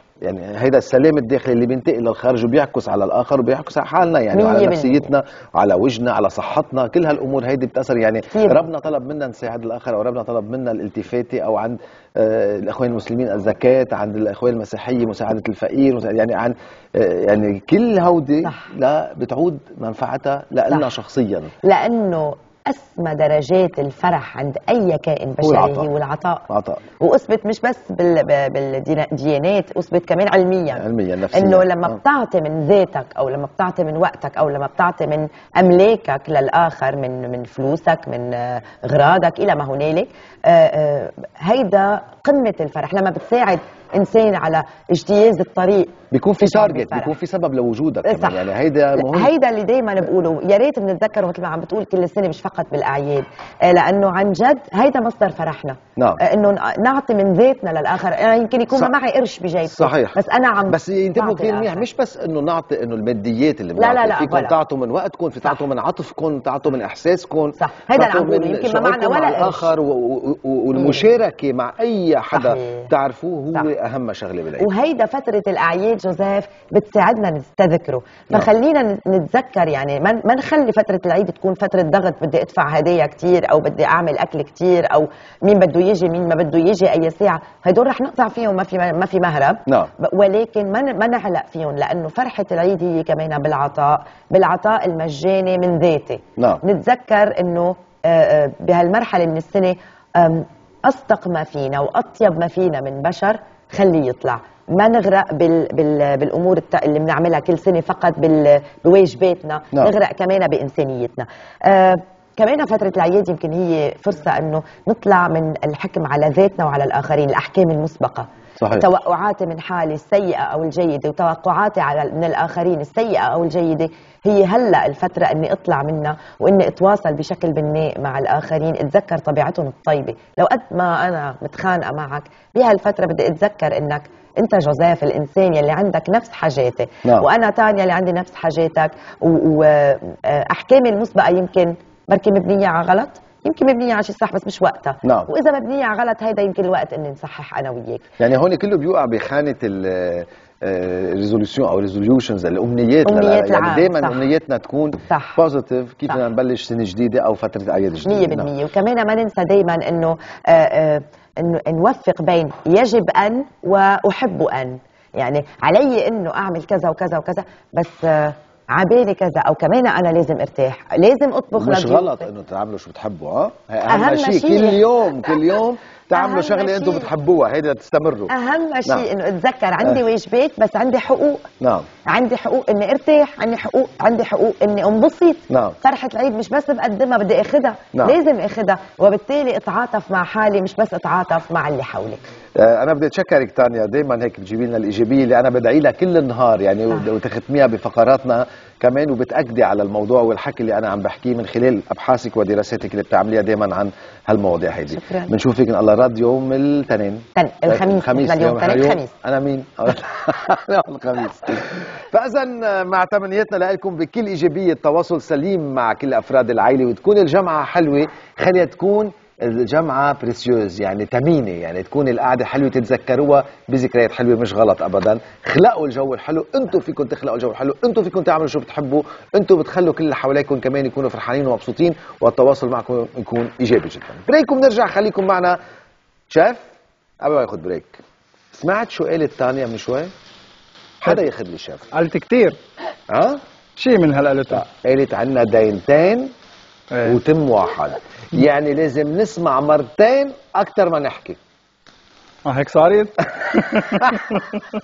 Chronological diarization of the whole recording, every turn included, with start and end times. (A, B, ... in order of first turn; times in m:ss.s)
0:00.2-0:21.5 A
0:04.3-0:05.1 B
0:08.3-0:08.6 B
0:21.6-0:26.5 B
0:25.4-0:25.9 A
0:26.5-0:26.8 A
0:27.0-0:47.1 B
0:30.7-0:32.0 A
0:46.1-0:49.3 A
0:48.0-1:01.8 B
0:56.0-0:56.2 A
0:59.6-1:14.7 A
1:03.8-1:04.5 B
1:07.6-1:09.7 B
1:10.8-1:11.0 B
1:12.3-1:12.9 B
1:14.6-2:28.0 B
1:58.6-1:58.9 A
2:25.0-2:25.3 A
2:28.2-2:38.5 A
2:33.0-2:34.2 B
2:35.1-2:35.4 B
2:38.0-2:52.3 B
2:51.5-2:58.3 A
2:53.9-2:54.8 B
2:56.1-2:57.1 B
2:58.3-3:01.5 B
3:01.6-3:01.9 A
3:02.0-3:12.2 B
3:05.5-3:05.8 A
3:12.6-3:55.6 A
3:24.9-3:25.3 B
3:27.4-3:29.1 B
3:56.3-3:56.7 A
3:57.2-3:58.0 A
3:58.5-4:00.1 A
4:01.0-4:01.9 A
4:01.9-4:02.6 C
4:03.1-4:03.4 A
4:03.8-4:04.6 C
4:04.5-4:06.3 A
4:07.0-4:11.4 A
4:12.4-4:14.6 C
4:14.0-4:14.3 A